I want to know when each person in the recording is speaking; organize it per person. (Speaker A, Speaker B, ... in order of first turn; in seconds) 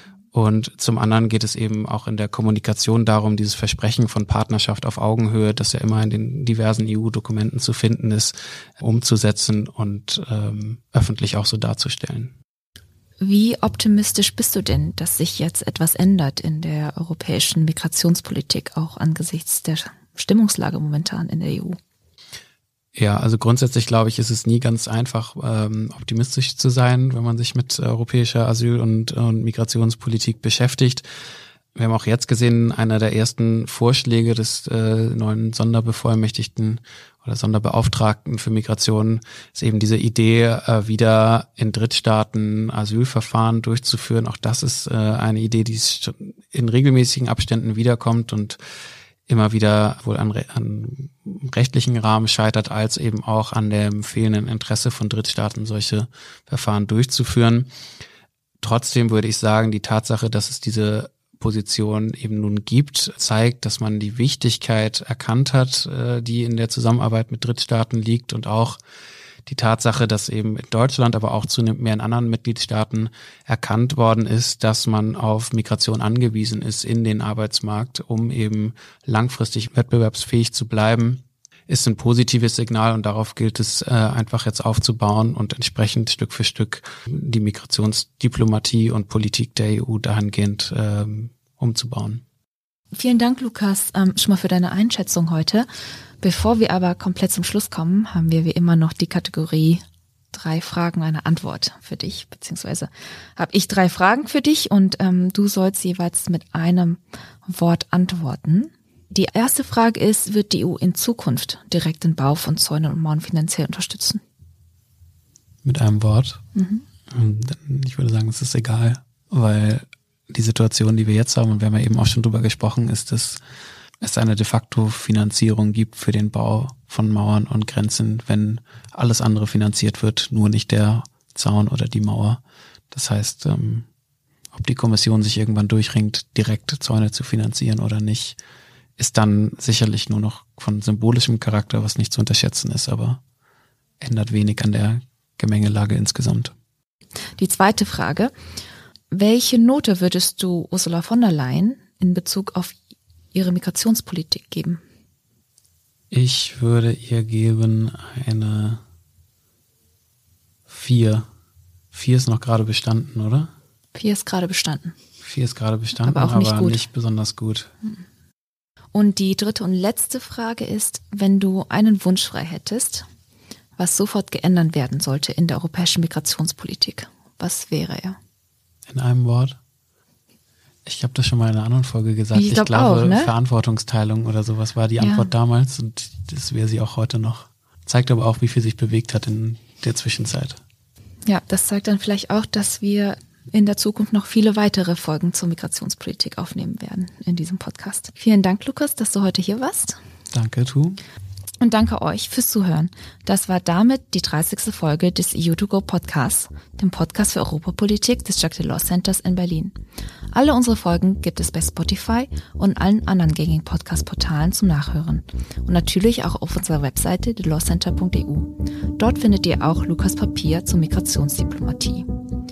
Speaker A: 0.3-12.3, 22.9-31.1, 31.8-48.6, 49.3-57.7, 58.6-68.8, 69.5-92.2, 115.6-116.4, 117.1-123.4, 124.0-133.9, 134.5-138.4, 139.0-143.2, 144.0-146.5, 156.1-158.8, 160.7-161.3, 161.9-163.5, 165.2-167.7, 178.9-179.6, 180.8-190.6, 200.3-201.0
Speaker B: 13.2-21.8, 92.9-95.7, 96.2-99.8, 100.3-114.2, 116.5-116.8, 147.4-148.3, 149.1-152.8, 153.3-154.8, 163.9-165.0, 166.0-166.8, 168.9-173.1, 173.8-178.2, 182.3-183.3, 185.0-185.3, 191.3-200.0, 201.6-209.8, 210.3-222.1